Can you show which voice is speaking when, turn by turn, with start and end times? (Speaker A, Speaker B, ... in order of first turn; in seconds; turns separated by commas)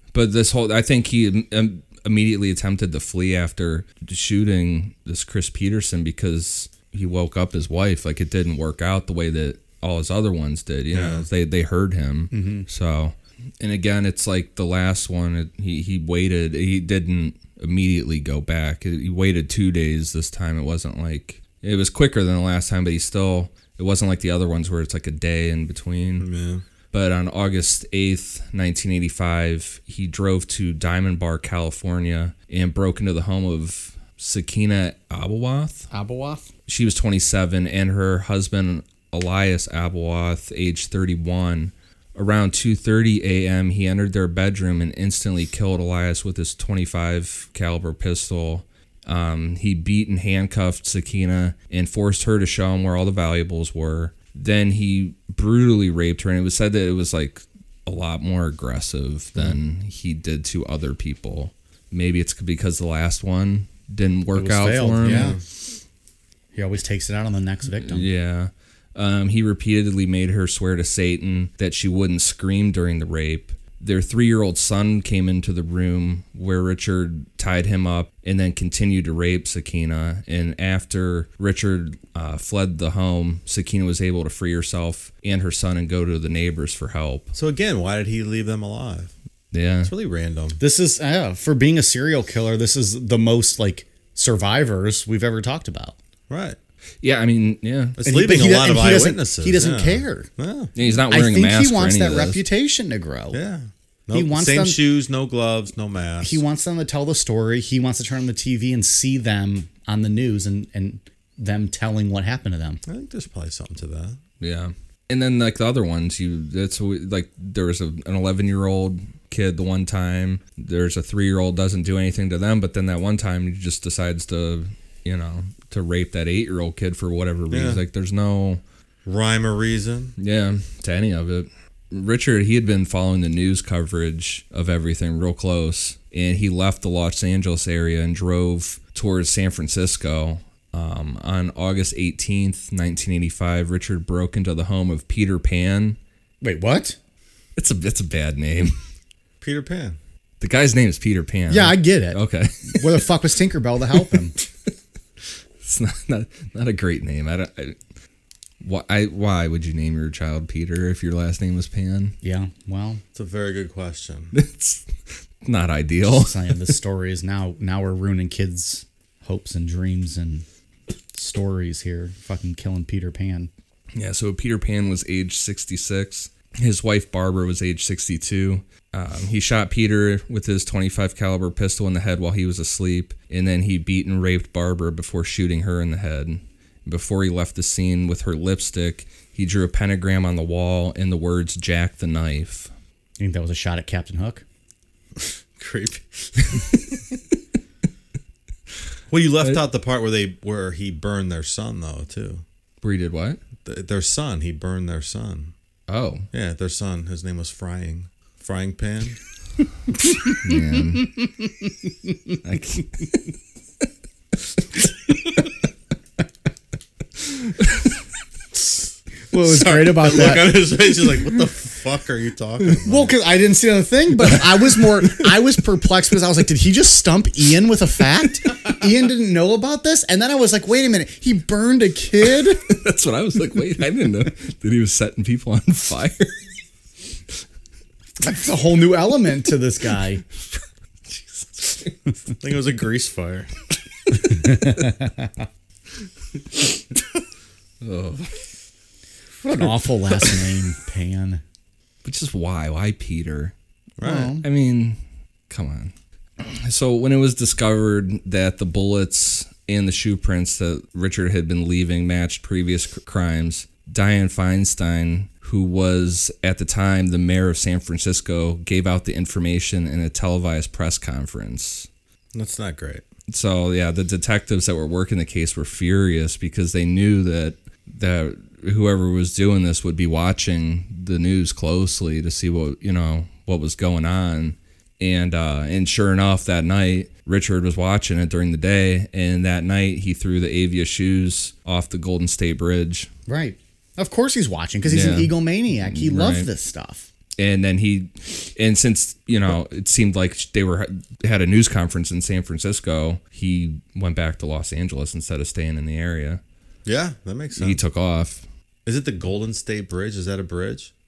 Speaker A: 0.1-26.3, Speaker B: 10.9-11.3, Speaker C: 12.3-12.7, Speaker B: 26.2-26.6, Speaker A: 26.9-35.9, Speaker C: 35.9-36.5, Speaker A: 36.7-65.3, Speaker C: 64.3-65.4, Speaker B: 65.0-65.4, Speaker C: 66.5-68.1, Speaker A: 67.8-87.3, Speaker B: 87.3-89.1, Speaker A: 89.5-89.9, Speaker B: 89.8-90.6, Speaker C: 90.6-96.0, Speaker B: 96.3-96.6, Speaker A: 97.0-98.0, Speaker B: 98.0-100.7, Speaker C: 98.0-100.3, Speaker A: 100.7-102.4, Speaker C: 101.1-103.4, Speaker B: 103.3-106.4, Speaker C: 104.1-104.8, Speaker C: 106.2-112.8, Speaker B: 112.9-114.2, Speaker A: 114.4-128.6, Speaker B: 127.5-127.8, Speaker B: 129.1-130.1, Speaker A: 130.2-146.0, Speaker C: 146.4-147.0, Speaker A: 147.6-148.7, Speaker B: 149.4-150.0, Speaker A: 150.4-153.0, Speaker C: 151.5-154.3, Speaker A: 155.6-157.8, Speaker A: 158.6-162.2, Speaker C: 162.2-163.0, Speaker B: 163.1-164.3, Speaker A: 164.3-164.9, Speaker A: 165.4-166.6, Speaker C: 166.1-170.4, Speaker C: 171.1-173.5, Speaker A: 173.9-192.7, Speaker C: 193.2-194.4, Speaker B: 195.2-196.9, Speaker B: 199.1-202.4, Speaker A: 202.8-203.4, Speaker B: 203.6-205.5, Speaker A: 205.9-206.3, Speaker B: 206.3-209.2, Speaker A: 210.3-211.2, Speaker A: 212.4-213.3, Speaker C: 219.3-220.8, Speaker B: 219.4-223.1, Speaker C: 222.8-232.6, Speaker A: 232.5-236.3, Speaker C: 238.2-240.2, Speaker A: 241.1-241.9, Speaker B: 242.4-243.5, Speaker C: 244.3-245.3, Speaker A: 247.8-248.4, Speaker C: 249.4-251.4, Speaker A: 252.0-253.5, Speaker B: 254.0-254.4, Speaker C: 254.0-254.4, Speaker A: 254.3-255.0, Speaker A: 255.5-271.9, Speaker B: 272.3-273.0, Speaker A: 273.3-293.1, Speaker C: 293.3-297.1, Speaker A: 294.9-296.5, Speaker A: 297.4-306.4, Speaker B: 306.8-307.8, Speaker A: 307.6-308.4, Speaker B: 308.9-310.9